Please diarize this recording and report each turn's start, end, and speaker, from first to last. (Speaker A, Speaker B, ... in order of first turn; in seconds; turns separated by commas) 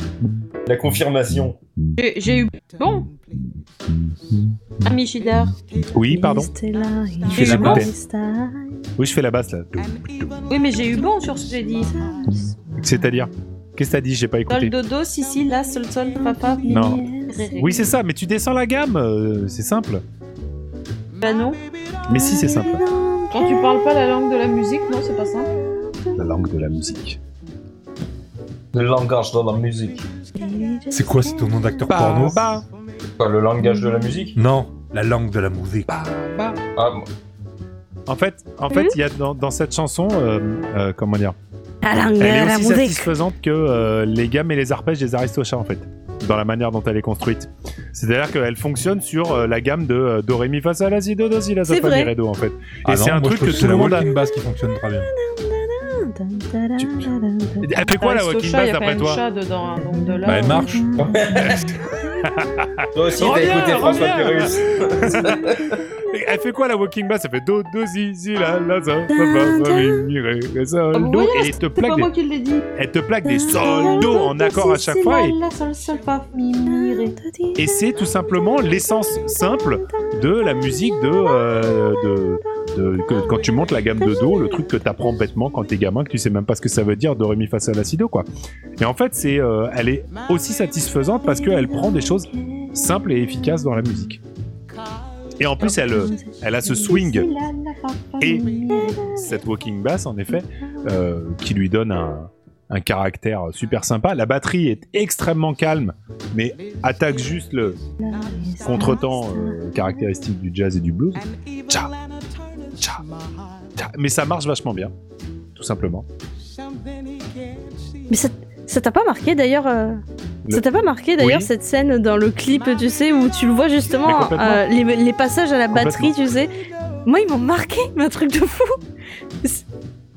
Speaker A: 0.2-0.5, Speaker B: 0.6-1.6, Speaker C: 2.0-3.1, Speaker A: 3.3-4.9, Speaker C: 4.8-5.5, Speaker A: 5.7-6.5, Speaker D: 6.0-8.8, Speaker E: 7.3-7.9, Speaker A: 7.3-7.9, Speaker C: 7.3-7.8, Speaker A: 9.0-10.3, Speaker C: 10.5-12.0, Speaker D: 11.8-13.0, Speaker A: 12.3-14.7, Speaker C: 14.5-17.9, Speaker D: 16.1-17.8, Speaker A: 16.7-20.0, Speaker C: 21.2-21.6, Speaker A: 22.1-22.9, Speaker D: 22.1-23.8, Speaker C: 23.3-25.5, Speaker D: 25.2-26.5, Speaker A: 26.1-27.2, Speaker B: 28.7-30.1, Speaker D: 30.4-31.9, Speaker E: 30.9-32.4, Speaker A: 31.9-32.6, Speaker B: 33.2-34.4, Speaker D: 33.6-34.3, Speaker E: 34.3-36.0, Speaker A: 35.9-36.6, Speaker B: 36.8-37.0, Speaker A: 38.1-41.4, Speaker D: 38.7-38.9, Speaker D: 41.8-43.1, Speaker A: 42.2-54.1, Speaker D: 51.7-52.1, Speaker E: 52.8-55.1, Speaker D: 53.6-54.0, Speaker D: 55.0-57.9, Speaker A: 57.6-59.2, Speaker C: 57.9-60.9, Speaker D: 59.9-62.9, Speaker E: 60.2-60.8, Speaker B: 61.0-61.7, Speaker A: 61.3-65.4, Speaker B: 62.9-65.8, Speaker D: 64.5-66.4, Speaker A: 66.0-72.1, Speaker D: 69.1-70.0, Speaker C: 70.9-72.7, Speaker A: 72.8-75.3, Speaker D: 73.2-74.2, Speaker C: 73.5-77.2, Speaker D: 76.6-77.8, Speaker A: 77.6-94.2, Speaker D: 78.8-83.4, Speaker D: 83.9-84.7, Speaker D: 91.2-93.7, Speaker A: 95.4-97.3, Speaker D: 95.6-96.9, Speaker C: 96.7-99.2, Speaker A: 98.2-107.8, Speaker D: 98.6-99.4, Speaker D: 100.6-101.0, Speaker D: 108.0-109.8, Speaker A: 108.6-111.9, Speaker A: 112.8-113.0, Speaker A: 113.8-114.9, Speaker A: 115.5-116.0, Speaker D: 118.1-126.5, Speaker A: 121.2-121.5, Speaker A: 124.0-124.6, Speaker A: 125.7-126.1, Speaker D: 127.0-128.8